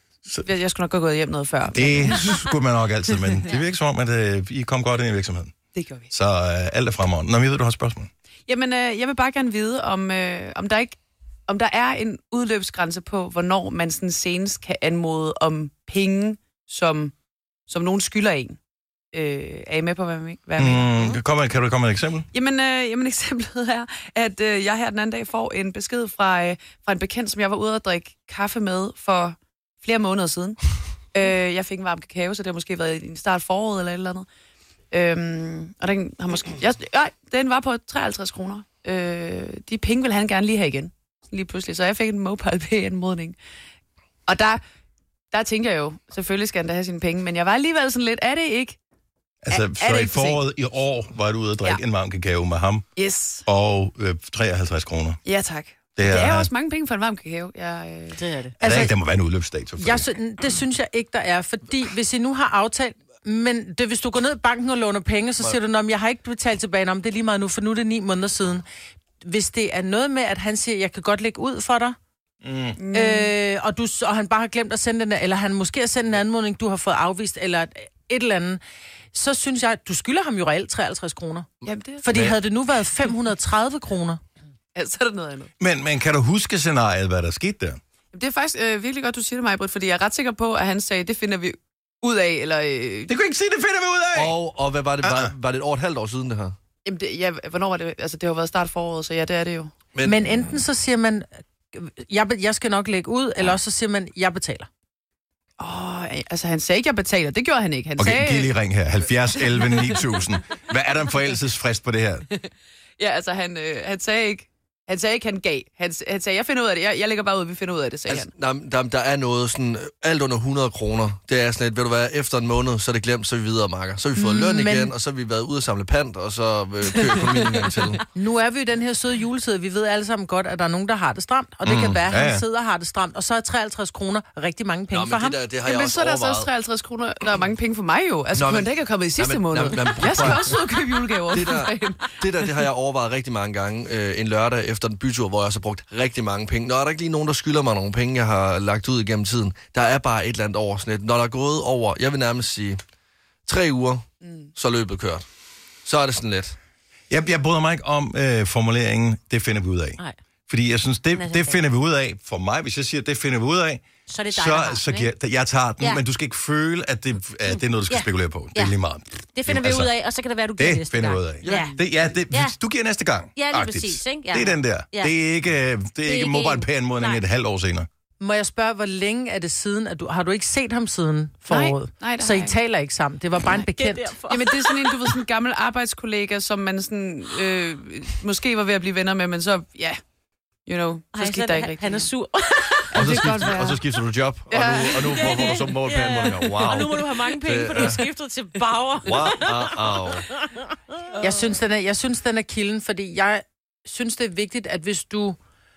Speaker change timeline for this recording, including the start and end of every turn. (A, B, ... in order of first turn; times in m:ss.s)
0:00.4-0:02.4 A
0:01.7-0:05.5 B
0:05.7-0:06.1 A
0:06.1-0:08.1 B
0:08.5-0:11.0 A
0:11.5-0:17.1 A
0:17.7-0:18.6 A
0:19.1-0:21.2 A
0:20.6-0:22.3 B
0:22.3-0:30.6 A
0:31.1-0:34.3 A
0:34.9-0:43.4 A
0:44.3-0:44.6 A
0:45.3-0:48.8 A
0:49.4-0:52.9 B
0:49.5-0:50.4 A
0:53.0-0:53.4 A
0:53.4-0:55.2 B
0:55.2-0:58.2 A
0:56.0-0:56.5 B
0:58.2-0:58.4 C
0:58.6-0:58.9 D
0:58.6-1:00.1 B
0:59.8-1:08.6 D
1:09.2-1:12.0 D
1:12.4-1:12.8 B
1:12.8-1:13.3 A
1:12.9-1:18.6 D
1:19.1-1:21.5 D
1:21.6-1:22.2 A
1:22.0-1:24.2 D
1:24.7-1:25.5 A
1:25.6-1:27.8 B
1:28.1-1:33.1 A
1:33.1-1:34.4 B
1:34.1-1:36.5 E
1:35.0-1:35.3 B
1:36.8-1:39.7 A
1:39.9-1:40.2 E
1:40.0-1:44.7 D
1:45.6-1:48.5 A
1:48.0-1:52.3 B
1:53.0-1:58.3 A
1:58.1-2:08.0 E
2:04.2-2:04.9 D
2:06.9-2:07.7 A
2:08.1-2:15.4 D
2:11.6-2:12.4 B
2:14.9-2:16.5 E
2:15.6-2:22.2 A
2:18.3-2:32.8 E
2:33.4-2:34.0 E
2:34.2-2:34.5 A
2:34.6-2:35.2 E
2:35.8-2:36.6 E
2:37.1-2:49.9 B
2:41.1-2:41.6 C
2:44.1-2:45.1 C
2:47.5-2:48.7 C
2:49.3-2:51.8 C
2:50.6-2:57.9 B
2:51.4-2:51.7 E
2:51.5-2:51.7 A
2:52.3-2:52.6 C
2:53.4-2:55.1 C
2:56.0-2:57.2 C
2:58.2-3:04.1 D
3:01.5-3:02.5 A
3:03.5-3:05.1 C
3:04.3-3:10.0 A
3:10.6-3:12.1 A
3:11.1-3:13.0 C
3:12.9-3:13.8 A
3:13.0-3:13.8 E
3:13.0-3:16.9 B
3:14.5-3:15.6 A
3:15.1-3:20.6 C
3:16.1-3:16.8 E
3:17.4-3:18.0 E
3:19.0-3:20.3 E
3:21.2-3:25.4 D